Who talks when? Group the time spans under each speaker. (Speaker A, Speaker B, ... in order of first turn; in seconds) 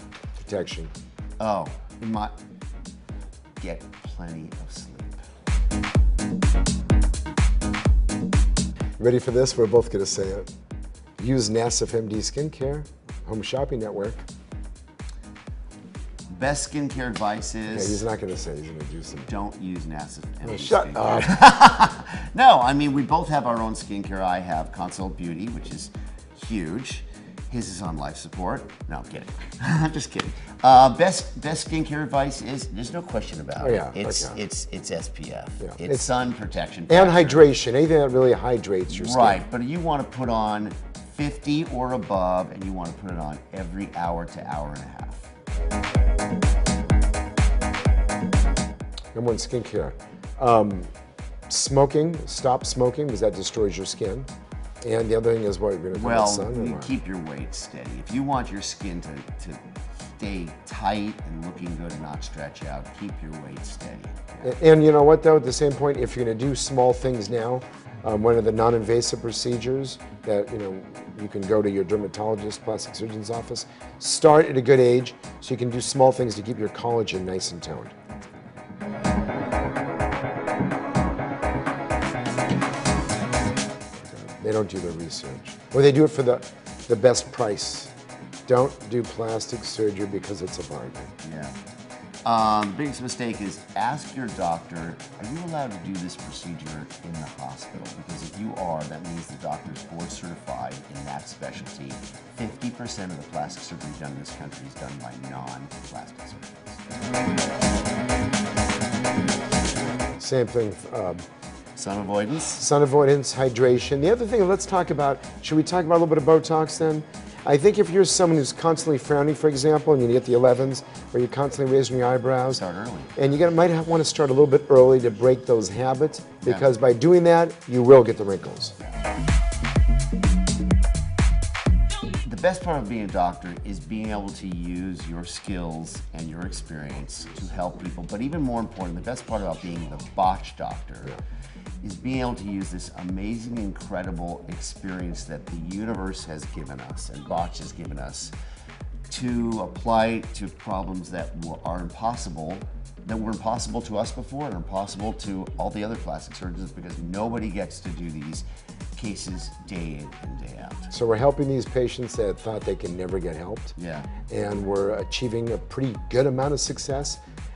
Speaker A: 0.3-0.9, 9.0-10.5, 11.2-14.2, 17.7-19.3, 20.4-21.3, 33.6-34.4, 35.6-36.1, 36.9-39.4, 49.1-50.9, 51.5-54.3, 54.8-57.0, 64.4-78.0, 84.0-87.9, 88.5-91.1, 110.2-111.2, 112.5-122.6, 123.1-128.7, 160.9-167.2
Speaker B: 1.4-2.3, 3.6-5.2, 16.3-18.0, 19.3-37.4, 38.9-45.3, 55.9-64.5, 91.2-91.5, 92.2-106.8, 111.8-112.6, 122.5-123.1, 126.4-126.7, 132.2-141.2, 141.8-148.3, 149.1-158.4, 158.9-160.9, 163.8-164.1